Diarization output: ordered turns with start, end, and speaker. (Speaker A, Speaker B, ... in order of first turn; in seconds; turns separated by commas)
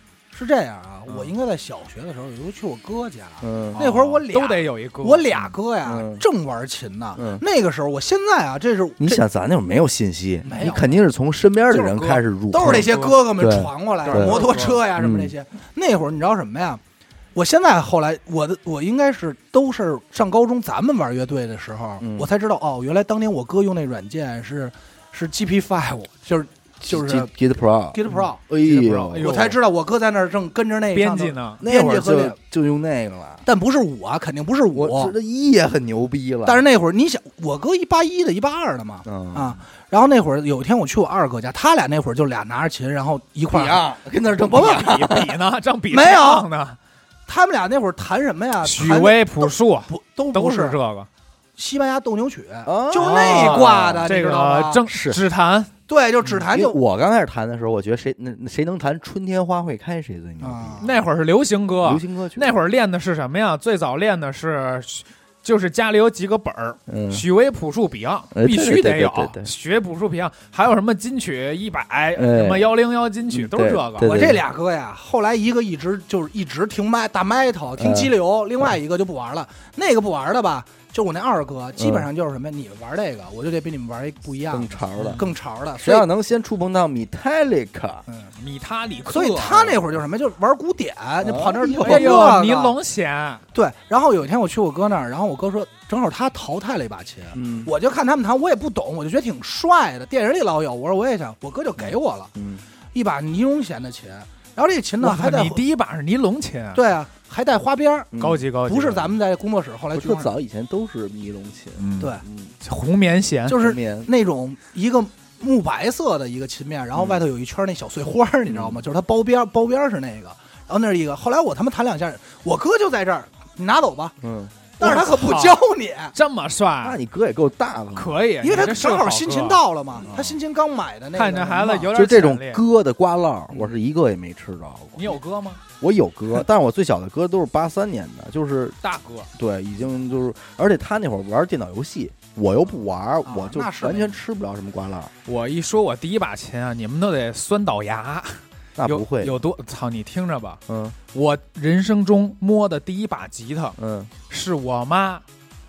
Speaker A: 0.3-9.2, Speaker B: 3.4-3.8, Speaker C: 3.7-5.3, Speaker B: 5.8-6.2, Speaker B: 7.2-7.4, Speaker B: 9.0-14.4, Speaker A: 10.4-11.0, Speaker C: 11.8-13.2, Speaker A: 12.5-16.8, Speaker C: 14.0-14.8, Speaker B: 14.9-15.3, Speaker A: 17.3-27.3, Speaker B: 22.0-22.3, Speaker B: 26.9-29.3, Speaker A: 27.9-28.5, Speaker C: 28.1-29.6, Speaker A: 29.1-32.4, Speaker C: 30.9-31.6, Speaker B: 31.6-33.4, Speaker A: 33.5-35.1, Speaker B: 34.7-36.6, Speaker A: 36.4-44.8, Speaker B: 39.0-39.6, Speaker B: 43.5-45.4, Speaker C: 44.5-46.8, Speaker A: 45.9-46.5, Speaker A: 47.3-50.8, Speaker C: 48.6-51.1, Speaker A: 51.6-54.8, Speaker B: 52.6-54.1, Speaker C: 53.0-55.7, Speaker B: 54.9-55.2, Speaker A: 55.9-56.8, Speaker B: 56.4-60.9, Speaker A: 60.4-60.9, Speaker C: 60.8-74.1, Speaker B: 61.8-62.5, Speaker B: 66.9-67.2, Speaker B: 68.3-69.5, Speaker B: 72.2-72.7, Speaker B: 73.3-74.4, Speaker A: 74.0-86.1, Speaker B: 77.8-78.1, Speaker B: 81.8-82.1, Speaker B: 84.5-85.2, Speaker C: 85.0-85.2, Speaker B: 85.8-88.0, Speaker C: 88.4-89.8, Speaker A: 89.1-92.8, Speaker B: 91.2-92.3, Speaker C: 91.8-93.4, Speaker A: 93.5-102.3, Speaker B: 97.3-97.7, Speaker B: 102.3-102.6, Speaker A: 102.9-105.6, Speaker C: 105.0-106.8, Speaker A: 106.7-108.1, Speaker B: 108.1-108.5, Speaker C: 108.2-109.1, Speaker A: 108.6-110.3, Speaker B: 109.9-112.5, Speaker C: 111.8-113.6, Speaker A: 113.5-124.2, Speaker B: 113.5-114.1, Speaker B: 116.9-117.2, Speaker B: 118.5-118.8, Speaker B: 124.2-124.5, Speaker A: 124.8-126.1, Speaker C: 124.8-125.6, Speaker C: 126.1-127.0, Speaker B: 126.8-128.2, Speaker C: 127.9-129.6, Speaker A: 128.4-131.9, Speaker B: 130.0-130.3, Speaker C: 131.1-132.6, Speaker B: 131.9-135.1, Speaker C: 134.9-135.6, Speaker B: 135.8-138.8, Speaker C: 138.8-139.3, Speaker B: 139.3-145.1, Speaker A: 143.2-144.2, Speaker C: 145.2-150.6, Speaker B: 148.8-149.4, Speaker B: 150.7-150.9, Speaker C: 151.1-153.8, Speaker B: 153.8-154.1, Speaker C: 154.3-155.2